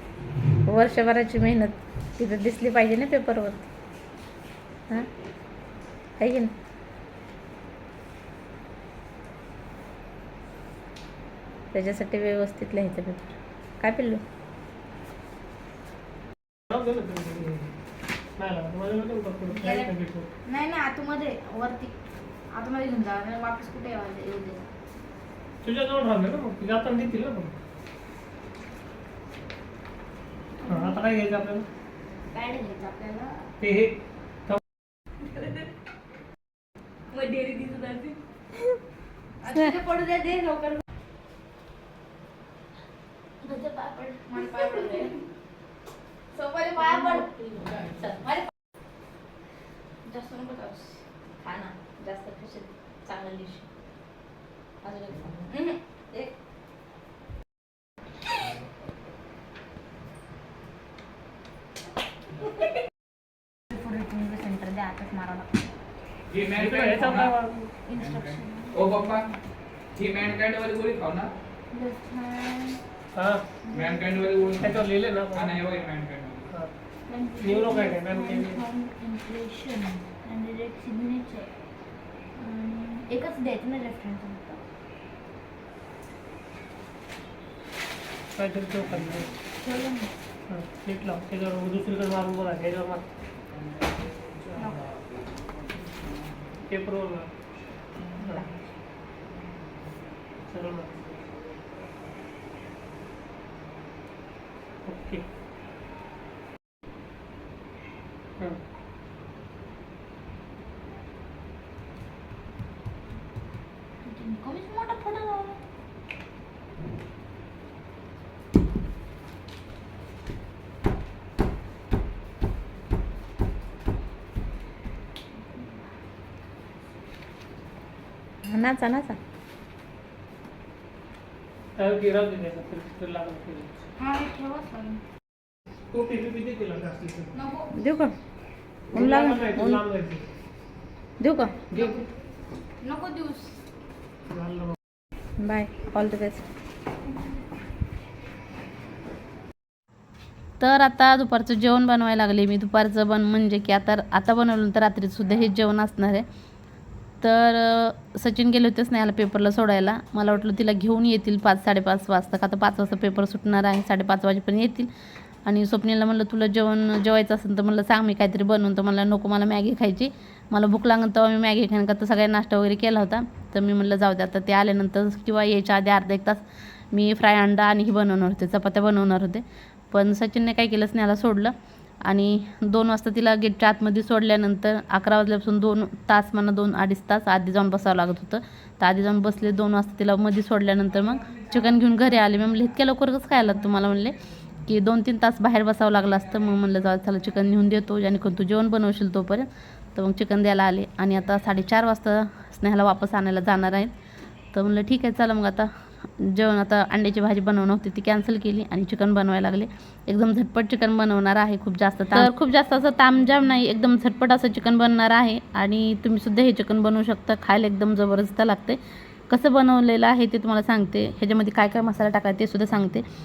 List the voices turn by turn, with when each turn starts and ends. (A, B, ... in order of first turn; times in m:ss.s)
0:00.7-0:03.7 A
0:06.2-0:06.5 A
0:11.7-0:14.2 A
0:16.7-0:17.7 B
0:18.4-0:20.3 B
0:19.6-0:19.9 C
0:20.4-0:22.0 C
0:22.5-0:24.7 C
0:25.6-0:27.5 B
0:30.6-0:31.0 C
0:30.6-0:31.7 B
0:32.3-0:33.5 C
0:33.6-0:34.0 B
0:37.1-0:38.2 C
0:39.4-0:40.8 C
0:43.4-0:45.2 C
0:44.6-0:45.1 A
0:46.4-0:47.5 C
0:46.9-0:48.4 A
0:50.0-0:51.0 C
0:51.4-0:53.7 A
0:54.8-0:55.5 A
0:55.5-0:55.8 C
1:03.7-1:05.6 C
1:06.3-1:07.3 D
1:06.5-1:07.7 B
1:07.9-1:09.4 C
1:08.0-1:09.2 D
1:10.0-1:11.3 D
1:11.7-1:12.8 C
1:13.2-1:13.4 B
1:13.6-1:14.7 C
1:13.7-1:14.7 D
1:14.6-1:15.7 B
1:15.4-1:16.5 D
1:17.1-1:21.5 C
1:17.4-1:18.6 B
1:22.4-1:24.6 C
1:28.4-1:29.3 B
1:29.6-1:30.1 C
1:30.5-1:33.1 B
1:34.5-1:35.0 C
1:36.6-1:37.3 B
1:40.5-1:41.2 B
1:44.9-1:45.2 B
1:54.0-1:55.6 C
2:05.5-2:05.8 C
2:08.4-2:09.2 A
2:11.8-2:13.7 B
2:14.0-2:15.0 C
2:15.9-2:17.3 B
2:17.3-2:17.7 C
2:17.7-2:18.2 A
2:18.9-2:20.2 B
2:18.9-2:19.8 A
2:21.2-2:21.6 A
2:21.7-2:22.0 C
2:21.7-2:22.0 B
2:22.8-2:23.6 C
2:24.3-2:24.8 B
2:25.4-2:26.4 A
2:30.6-2:36.2 A
2:37.2-2:44.9 A
2:45.4-3:01.5 A
3:02.0-3:23.9 A
3:24.5-3:43.0 A